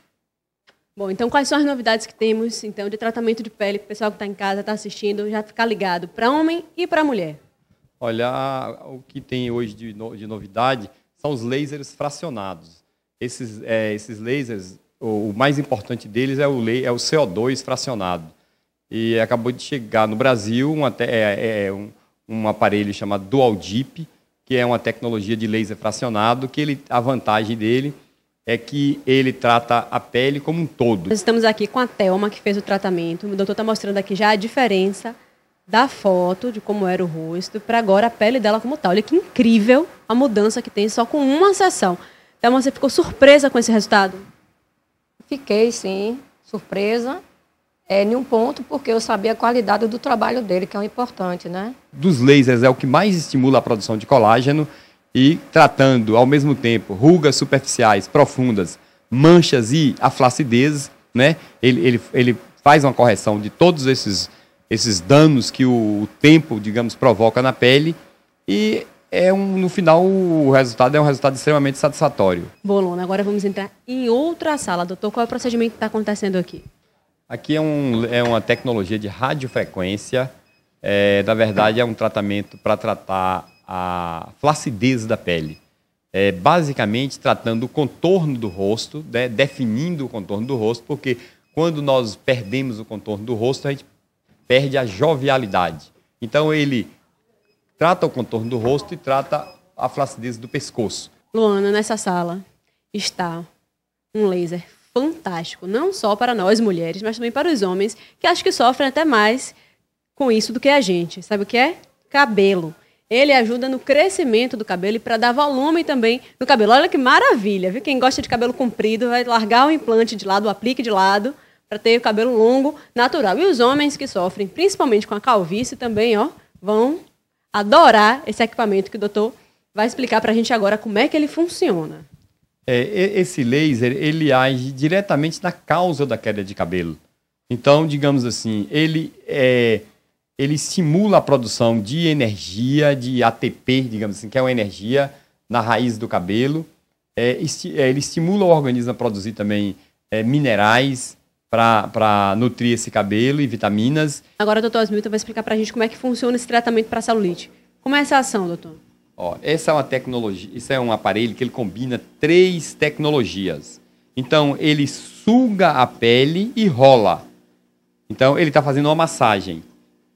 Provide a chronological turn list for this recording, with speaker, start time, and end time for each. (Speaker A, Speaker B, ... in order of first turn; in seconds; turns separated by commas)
Speaker A: 1.0-7.4, Speaker B: 8.0-18.3, Speaker B: 18.9-27.9, Speaker B: 28.5-31.1, Speaker A: 31.1-35.1, Speaker A: 35.7-44.2, Speaker C: 45.3-47.2, Speaker C: 47.9-51.8, Speaker B: 51.9-72.5, Speaker A: 72.6-76.6, Speaker B: 77.3-80.3, Speaker B: 80.8-85.6, Speaker B: 86.1-93.8, Speaker B: 94.5-96.9, Speaker B: 97.8-101.1, Speaker A: 101.3-103.5, Speaker A: 104.1-109.6, Speaker A: 110.2-127.0, Speaker A: 127.5-132.1, Speaker B: 132.7-137.0, Speaker B: 137.5-139.8, Speaker B: 140.4-154.2, Speaker A: 154.4-158.8, Speaker B: 159.2-167.2, Speaker B: 168.1-169.7